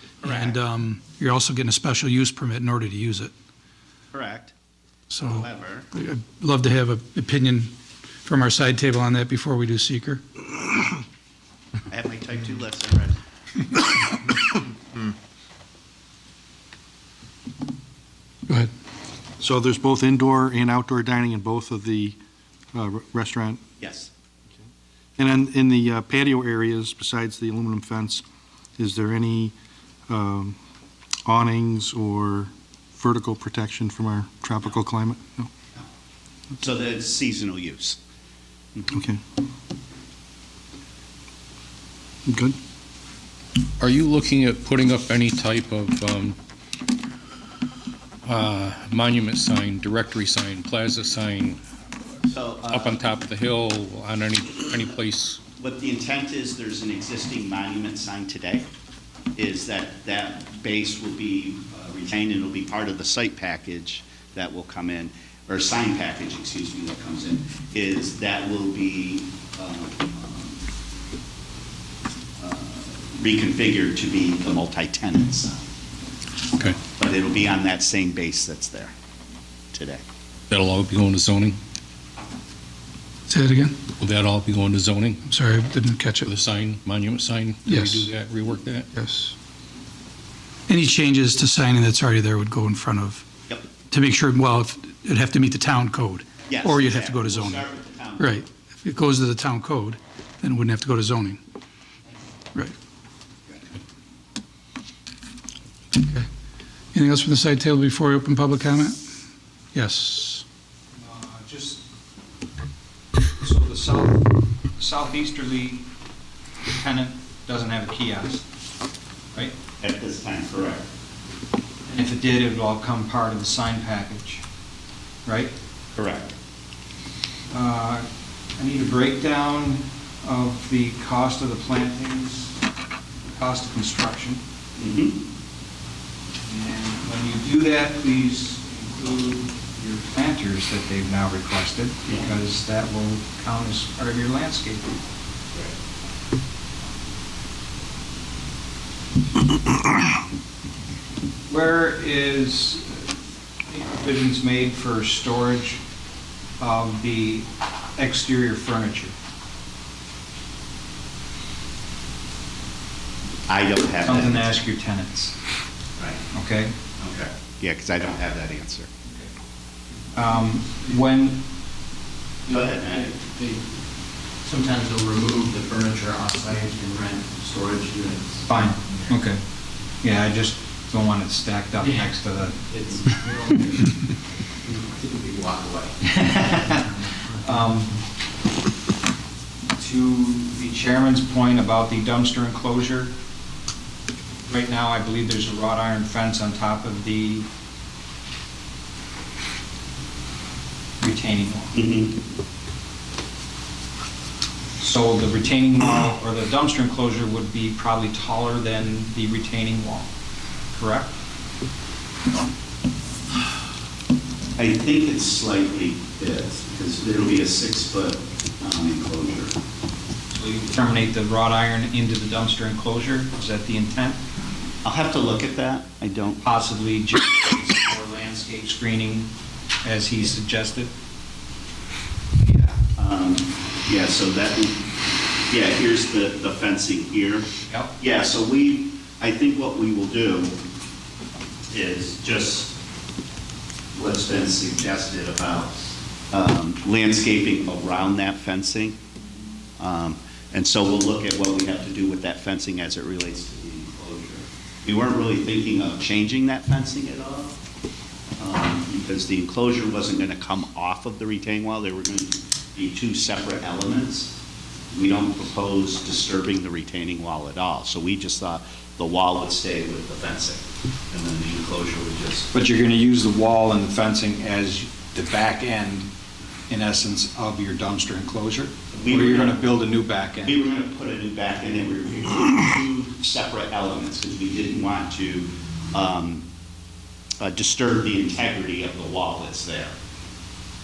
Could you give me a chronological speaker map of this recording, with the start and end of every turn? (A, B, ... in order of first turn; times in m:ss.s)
0:00.2-0:00.6 A
0:00.3-0:03.3 B
0:04.1-0:04.5 A
0:05.1-0:05.4 B
0:05.2-0:05.9 A
0:05.9-0:07.7 B
0:08.2-0:10.2 B
0:11.9-0:13.2 A
0:19.4-0:22.2 C
0:22.7-0:23.6 C
0:23.8-0:24.1 A
0:25.2-0:28.2 C
0:28.8-0:29.5 C
0:30.1-0:30.6 C
0:31.2-0:35.5 C
0:36.6-0:38.0 A
0:38.9-0:39.2 C
0:42.3-0:42.6 C
0:43.8-0:46.4 D
0:48.2-0:51.6 D
0:52.3-0:53.0 A
0:52.7-0:55.4 D
0:55.6-0:58.7 A
0:59.4-1:10.6 A
1:12.4-1:15.6 A
1:16.6-1:18.9 A
1:19.7-1:20.0 A
1:20.5-1:21.6 D
1:23.3-1:23.8 B
1:24.0-1:25.2 D
1:25.3-1:26.3 B
1:26.2-1:28.9 D
1:27.7-1:28.1 B
1:28.9-1:29.3 B
1:30.7-1:33.2 B
1:33.9-1:37.6 B
1:36.5-1:38.4 A
1:38.8-1:41.4 B
1:46.9-1:49.0 B
1:49.7-1:50.4 B
1:50.9-1:51.8 E
1:53.4-1:55.8 E
1:56.7-1:58.4 E
1:59.8-2:00.8 A
2:01.9-2:04.4 E
2:05.2-2:05.5 E
2:05.9-2:06.3 A
2:07.5-2:08.0 E
2:08.6-2:12.5 E
2:13.3-2:14.4 E
2:14.8-2:15.2 A
2:16.4-2:24.9 E
2:31.5-2:33.1 E
2:33.6-2:35.8 E
2:36.6-2:39.1 E
2:43.5-2:44.6 A
2:44.0-2:45.3 E
2:46.0-2:46.2 A
2:46.3-2:46.8 E
2:47.0-2:48.9 A
2:50.1-2:51.4 E
2:52.5-2:53.1 A
2:53.3-2:53.6 F
2:54.4-2:58.4 F
2:58.4-2:59.4 E
3:00.0-3:02.6 E
3:02.7-3:03.1 F
3:04.7-3:05.9 F
3:06.1-3:08.0 E
3:09.8-3:13.1 E
3:14.4-3:17.4 E
3:21.0-3:21.7 E
3:21.7-3:22.1 A
3:24.8-3:30.1 E
3:30.7-3:31.1 E
3:34.6-3:39.5 A
3:40.3-3:44.2 E
3:44.8-3:46.4 A
3:46.4-3:49.3 E
3:49.8-3:50.9 E
3:52.4-3:54.9 A
3:55.5-4:00.6 A
3:57.7-3:57.9 E
4:01.7-4:02.7 A
4:03.9-4:09.0 A
4:09.8-4:17.6 A
4:18.4-4:24.3 A
4:24.9-4:32.5 A
4:32.5-4:36.1 E
4:36.7-4:40.6 E
4:38.9-4:39.6 A
4:40.4-4:46.4 A
4:47.4-4:49.9 A